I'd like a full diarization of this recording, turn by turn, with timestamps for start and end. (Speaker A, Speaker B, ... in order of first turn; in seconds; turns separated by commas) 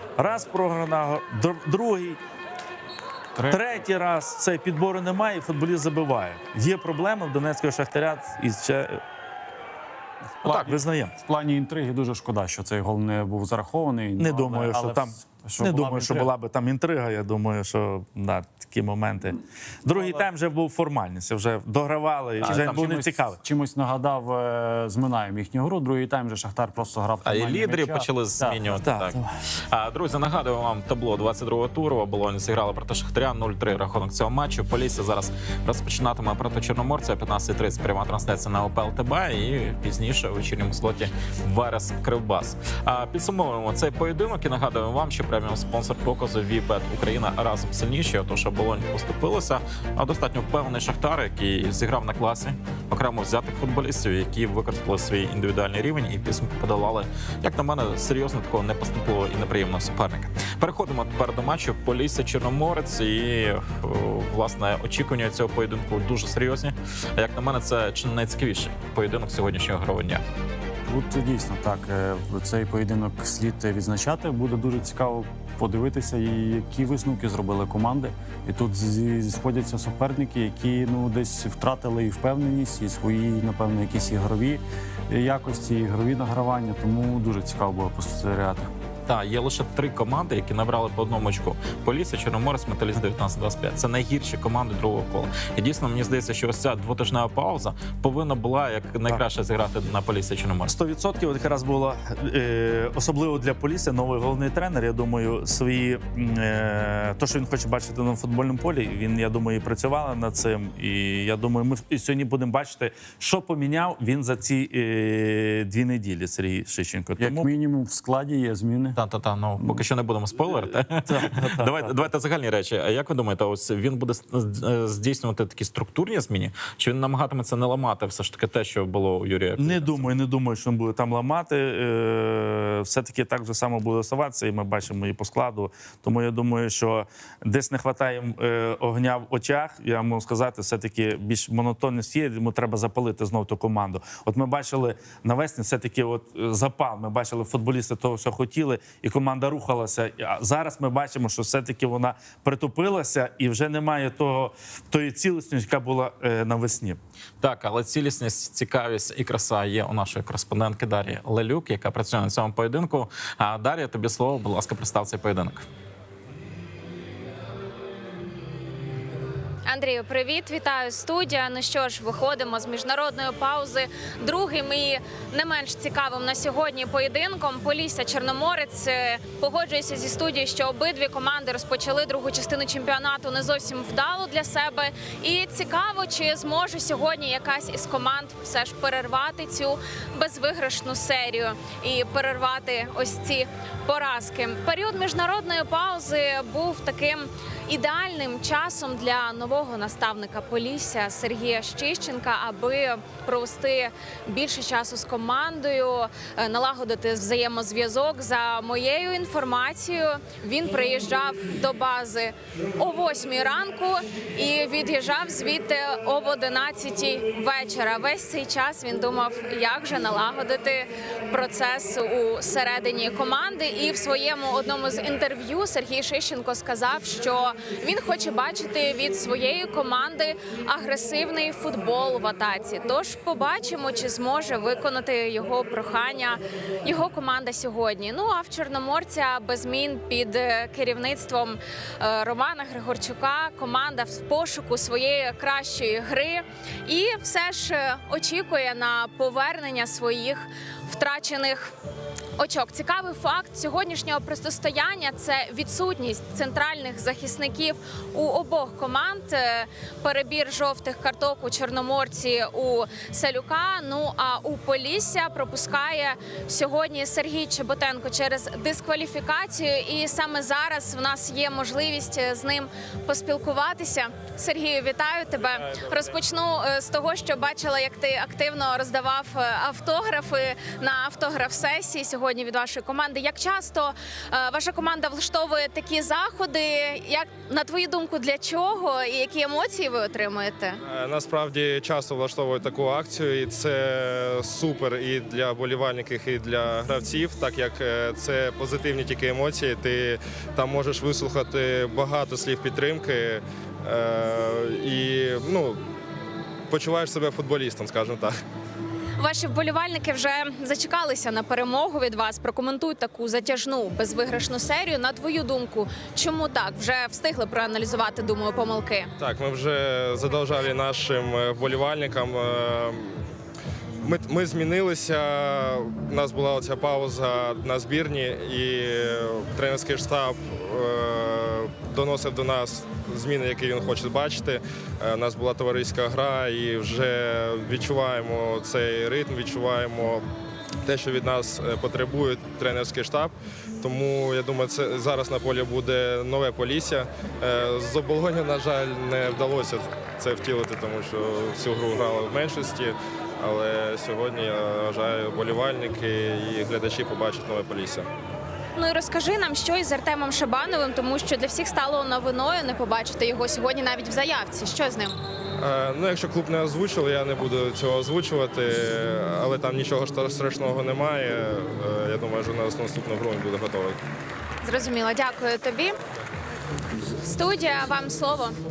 Speaker A: 0.2-2.2, Speaker B: 3.4-3.7, Speaker A: 3.5-9.0, Speaker B: 10.4-16.3, Speaker A: 10.5-11.1, Speaker A: 14.2-23.4, Speaker B: 19.9-20.3, Speaker B: 22.4-28.6, Speaker C: 22.4-22.9, Speaker C: 27.2-29.2, Speaker A: 28.8-29.3, Speaker C: 29.7-70.2, Speaker B: 70.8-88.7, Speaker C: 89.1-100.8, Speaker A: 100.7-117.5, Speaker B: 117.2-119.0, Speaker C: 119.0-130.1, Speaker A: 121.1-122.0, Speaker A: 129.6-157.0, Speaker C: 157.4-165.7, Speaker D: 169.7-251.7, Speaker D: 252.4-290.8, Speaker E: 275.4-276.2, Speaker E: 290.8-305.8, Speaker E: 306.7-308.4, Speaker D: 309.2-319.1, Speaker E: 319.2-323.3, Speaker E: 324.0-340.3, Speaker E: 340.8-358.1, Speaker D: 358.8-365.2, Speaker E: 365.6-374.0, Speaker D: 374.6-376.0, Speaker D: 377.2-378.6